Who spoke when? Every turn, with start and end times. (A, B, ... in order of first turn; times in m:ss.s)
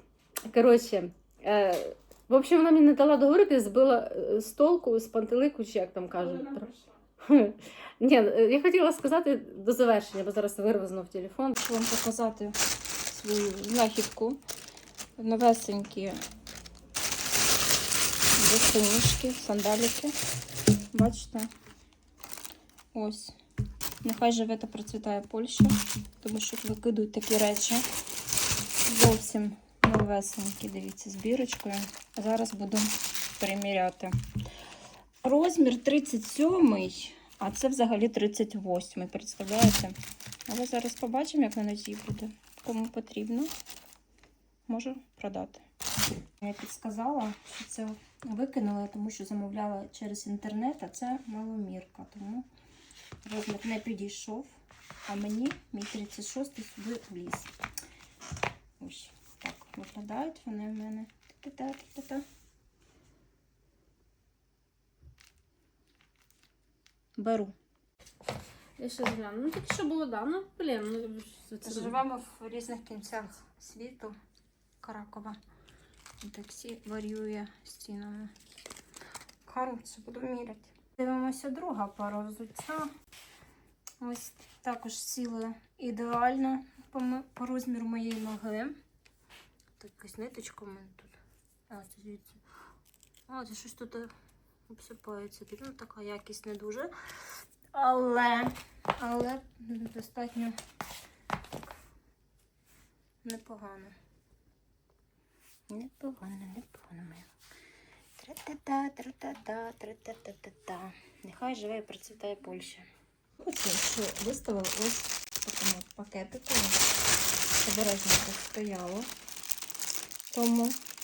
0:00.5-0:06.7 A
0:06.2-0:06.9 B
0:07.2-0:11.6 A
0:11.6-0:12.6 B
0:13.1-0:14.4 B
0:15.2-0:16.2 B
0:18.4-0:20.2 B
0:20.9-0:21.5 B
0:22.9-0:23.3 B
0:24.0-0:27.8 B
0:28.9-0:34.1 B
0:35.2-0:39.9 B
0:40.5-0:43.5 B
0:44.7-0:45.6 B
0:46.4-0:52.4 B
0:53.2-0:57.5 B
0:58.8-1:02.2 B
1:07.2-1:07.5 B
1:08.8-1:12.0 A
1:11.6-1:14.2 B
1:14.8-1:15.4 B
1:16.2-1:18.3 B
1:19.4-1:22.9 B
1:24.0-1:28.8 B
1:29.8-1:31.1 B
1:31.7-1:32.4 B
1:33.3-1:34.1 B
1:34.7-1:36.9 B
1:37.7-1:40.6 B
1:43.2-1:43.9 B
1:45.7-1:47.3 B
1:48.2-1:52.8 B
1:53.4-1:56.8 B
1:57.6-1:59.1 B
2:00.3-2:00.8 B